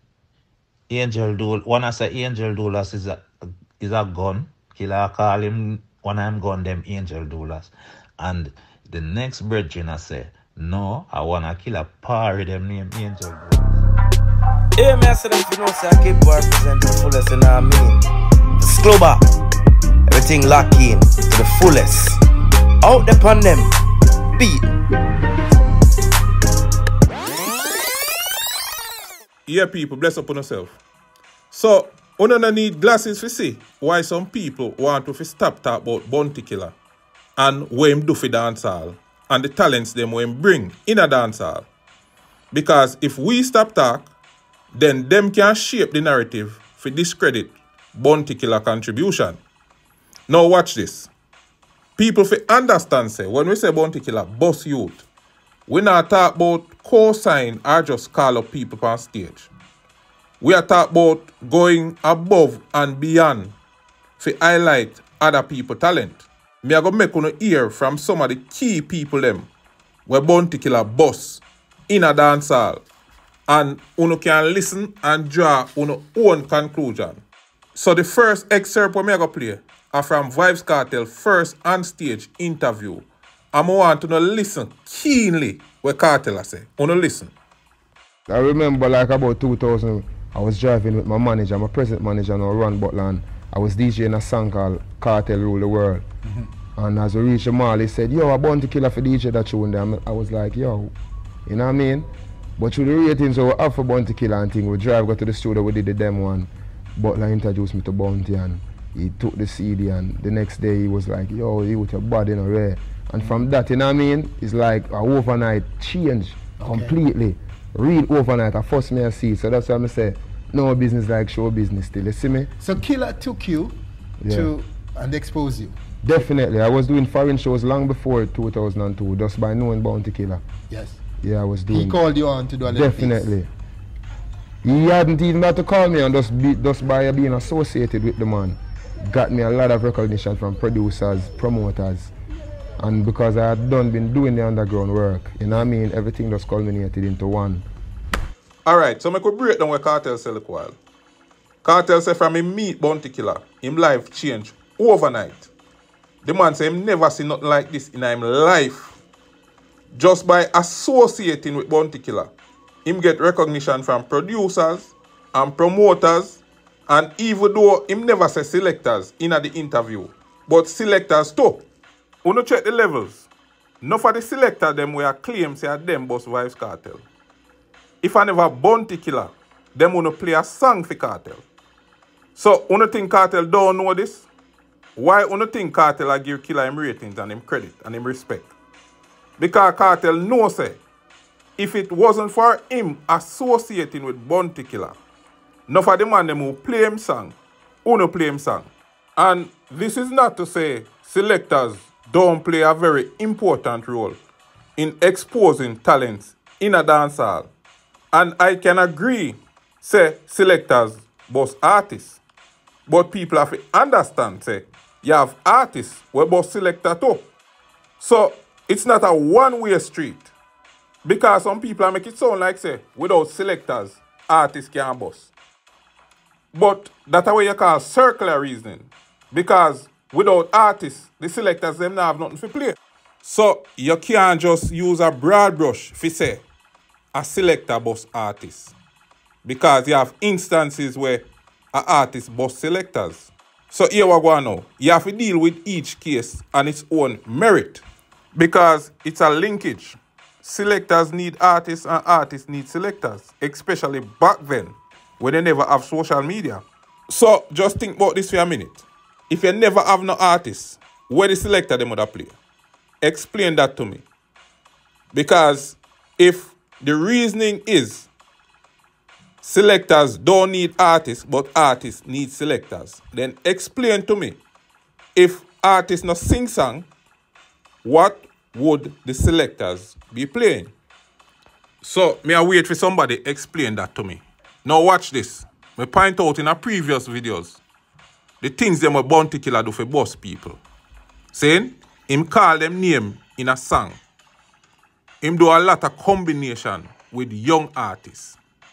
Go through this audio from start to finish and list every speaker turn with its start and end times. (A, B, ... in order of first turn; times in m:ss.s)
0:00.9-0:03.3 A
0:03.8-0:13.7 A
0:14.8-0:18.0 B
0:18.6-0:19.3 B
0:20.1-0:22.2 B
0:22.8-0:23.7 B
0:24.4-0:24.7 B
0:29.4-0:30.8 C
0:31.5-0:36.8 C
0:37.4-0:41.7 C
0:42.5-0:44.1 C
0:44.7-0:49.4 C
0:50.3-0:51.1 C
0:52.0-0:55.0 C
0:55.7-0:59.5 C
1:00.4-1:03.6 C
1:04.2-1:09.5 C
1:10.0-1:12.8 C
1:13.5-1:17.2 C
1:17.7-1:27.3 C
1:28.3-1:36.0 D
1:36.8-1:40.9 D
1:41.4-2:02.5 D
1:56.6-1:57.0 E
2:02.6-2:03.8 E
2:04.2-2:04.5 D
2:04.3-2:05.8 E
2:06.0-2:10.4 D
2:10.7-2:11.0 E
2:11.2-2:12.0 D
2:11.7-2:13.4 E
2:12.6-2:13.5 D
2:14.6-2:18.6 D
2:19.1-2:22.1 D
2:22.8-2:27.6 D
2:28.6-2:30.8 C
2:31.6-2:35.5 C
2:36.2-2:39.0 C
2:39.9-2:42.3 C
2:42.8-2:51.6 C
2:52.2-2:53.3 C
2:53.8-2:57.1 C
2:58.0-3:01.4 C
3:02.3-3:04.3 C
3:05.0-3:08.5 C
3:09.4-3:10.8 C
3:11.6-3:15.0 C
3:15.7-3:24.2 C
3:24.8-3:27.5 C
3:28.1-3:32.2 C
3:32.9-3:37.3 C
3:38.0-3:40.3 C
3:41.0-3:45.3 C
3:46.5-3:56.4 C
3:57.1-3:58.7 C
3:59.4-4:22.4 C
4:23.0-4:24.0 C
4:25.1-4:28.1 C
4:29.4-4:34.4 C
4:35.2-4:36.9 C
4:37.8-4:40.7 C
4:41.8-4:47.6 C
4:48.4-4:50.6 C
4:51.3-4:54.0 C
4:55.2-4:58.4 C